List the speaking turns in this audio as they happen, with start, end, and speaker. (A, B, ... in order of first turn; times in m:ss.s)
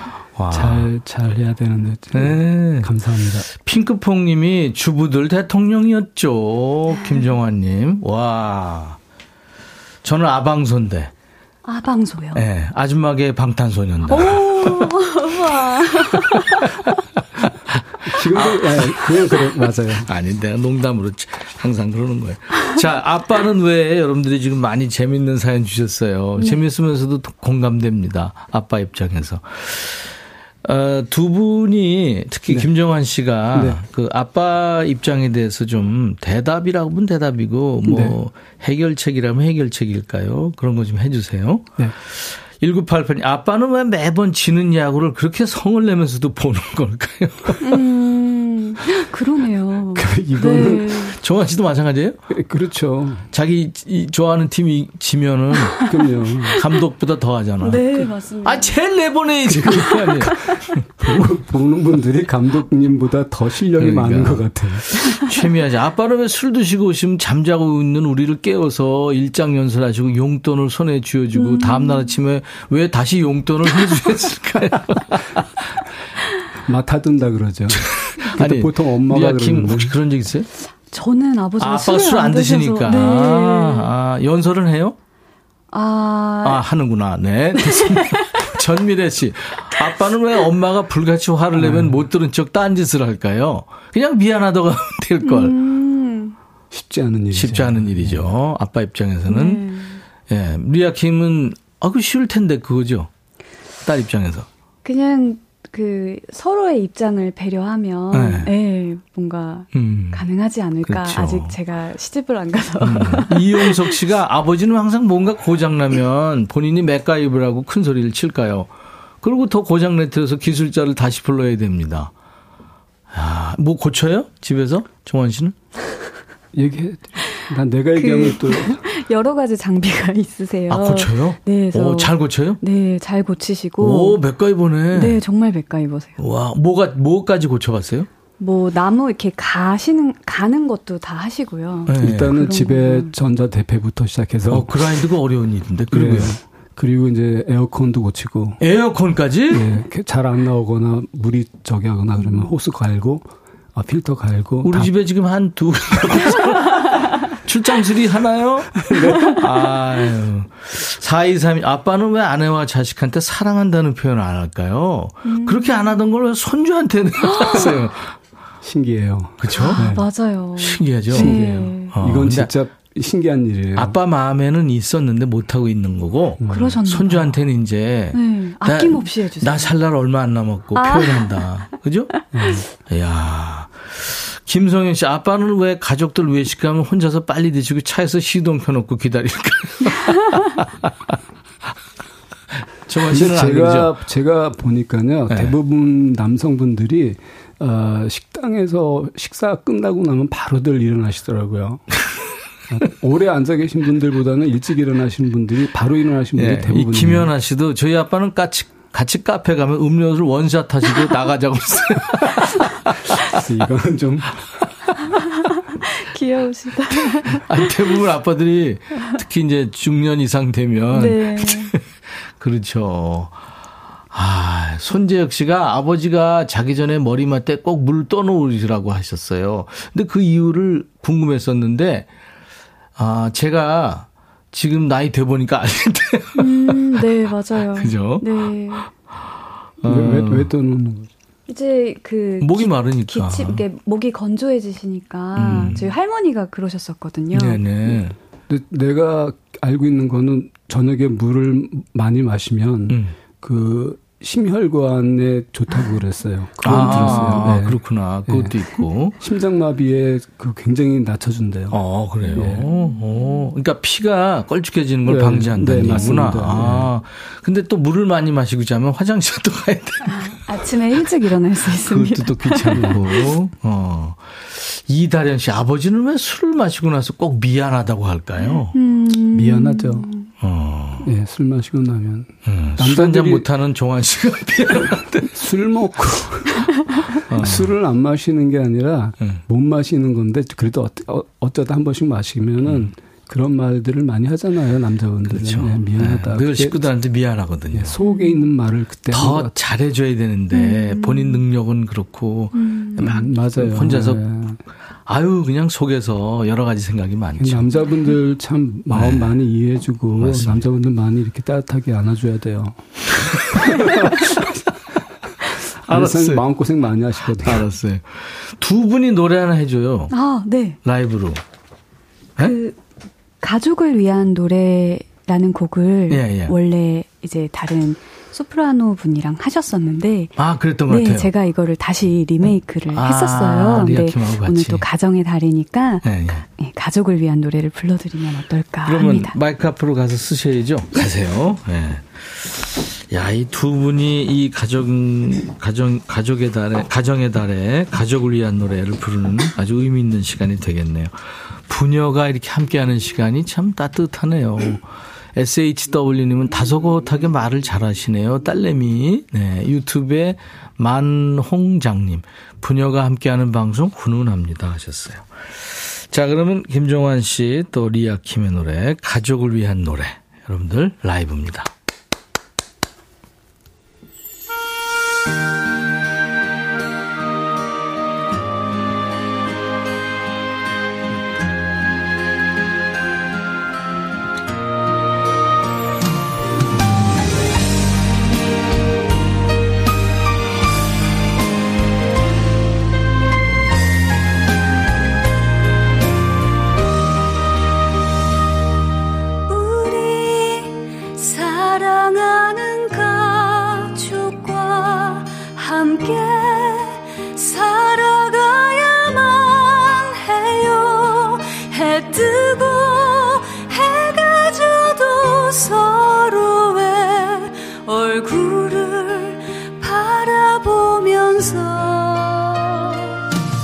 0:00.3-0:00.9 A
0:00.5-0:03.5 B
0:02.1-0:02.9 A
0:03.5-0:09.0 A
0:10.0-0:11.1 A
0:11.6-0:12.4 C
0:12.3-0:15.0 A
0:14.1-0:16.7 C
0:17.5-0:19.0 A
0:18.0-0:20.1 B
0:20.0-0:30.1 A
0:30.6-0:47.8 A
0:33.5-0:33.8 B
0:37.8-0:38.2 B
0:47.6-0:51.2 C
0:50.0-0:50.9 B
0:51.1-0:52.2 A
0:52.3-0:53.2 B
0:53.3-0:55.8 A
0:55.7-0:56.6 C
0:55.9-0:56.5 B
0:56.5-1:00.8 A
0:57.6-0:58.8 C
0:59.6-1:00.2 B
0:59.9-1:00.6 C
1:01.0-1:04.8 B
1:03.8-1:15.4 A
1:11.3-1:12.1 C
1:16.7-1:19.9 B
1:17.7-1:20.5 A
1:20.9-1:23.9 C
1:21.6-1:25.0 A
1:25.7-1:26.6 C
1:26.4-1:35.6 A
1:27.6-1:28.4 C
1:31.5-1:32.0 B
1:35.2-1:36.4 C
1:36.7-1:38.3 B
1:37.3-1:39.7 A
1:39.2-1:40.0 C
1:40.3-1:43.1 A
1:43.8-1:44.5 A
1:44.8-1:53.9 C
1:48.1-1:48.5 A
1:49.7-1:50.2 A
1:50.8-1:51.6 A
1:52.8-1:58.7 A
1:59.2-2:02.1 A
2:03.1-2:05.5 A
2:06.5-2:08.8 B
2:07.2-2:14.2 C
2:10.7-2:12.6 A
2:13.8-2:15.2 A
2:14.9-2:16.2 C
2:16.2-2:18.1 A
2:18.4-2:23.1 C
2:21.9-2:22.4 A
2:22.0-2:24.7 B
2:24.5-2:26.4 A
2:25.9-2:28.6 B
2:28.6-2:29.7 A
2:29.5-2:34.9 B
2:32.2-2:32.5 C
2:34.6-2:48.1 A
2:45.2-2:45.8 C
2:47.2-2:47.9 C
2:48.6-2:50.0 B
2:49.4-2:49.9 A
2:49.5-2:52.0 C
2:50.6-2:52.5 A
2:51.1-2:53.9 B
2:53.7-3:02.1 A
2:56.4-2:56.8 B
2:56.5-2:57.3 C
2:58.1-2:59.7 C
3:00.7-3:01.7 C
3:02.3-3:02.6 B
3:02.8-3:11.1 A
3:12.9-3:13.9 A
3:13.1-3:21.9 B
3:22.7-3:27.3 B
3:26.3-3:33.0 A
3:33.4-3:34.4 B
3:35.5-3:37.7 C
3:37.2-3:41.8 A
3:40.9-3:41.7 C
3:42.4-3:43.3 A
3:44.1-3:52.1 A
3:53.0-3:58.6 A
3:56.4-3:58.9 C
3:59.8-4:00.5 A
3:59.8-4:01.1 B
4:01.5-4:08.0 C
4:02.4-4:03.6 A
4:05.4-4:05.9 A
4:07.3-4:08.1 A
4:08.5-4:18.5 B
4:12.9-4:13.2 A
4:16.6-4:19.2 A
4:16.7-4:17.5 C
4:19.2-4:21.8 B
4:21.7-4:30.4 A
4:22.4-4:22.7 B
4:25.0-4:26.9 B
4:30.1-4:33.2 C
4:31.7-4:38.7 A
4:38.7-4:40.3 C
4:39.3-4:40.1 B
4:40.4-4:41.1 A
4:41.0-4:43.4 B
4:42.4-4:45.4 A
4:45.3-4:46.6 B
4:47.3-4:47.7 A
4:47.4-4:56.8 B
4:52.6-4:52.9 A
4:55.3-4:58.0 A
4:57.7-4:59.5 B
4:58.0-4:58.4 C
4:59.1-5:04.2 A
5:00.5-5:01.4 C
5:02.5-5:03.2 C
5:03.0-5:04.6 B
5:05.1-5:07.7 A
5:07.4-5:12.8 B
5:07.8-5:08.2 C
5:08.9-5:09.4 A
5:10.2-5:10.6 A
5:13.6-5:14.1 B
5:13.6-5:13.9 A
5:15.8-5:17.7 B
5:15.9-5:16.4 A
5:17.4-5:20.1 A
5:20.1-5:20.8 C
5:20.8-5:21.4 A
5:22.4-5:22.8 C
5:23.4-5:30.3 C
5:26.1-5:26.5 A
5:30.4-5:31.3 A
5:30.9-5:39.3 C
5:32.9-5:34.8 A
5:36.0-5:36.4 A
5:38.8-5:54.8 A
5:55.4-6:05.2 A
6:06.1-6:11.7 A
6:39.5-7:03.1 C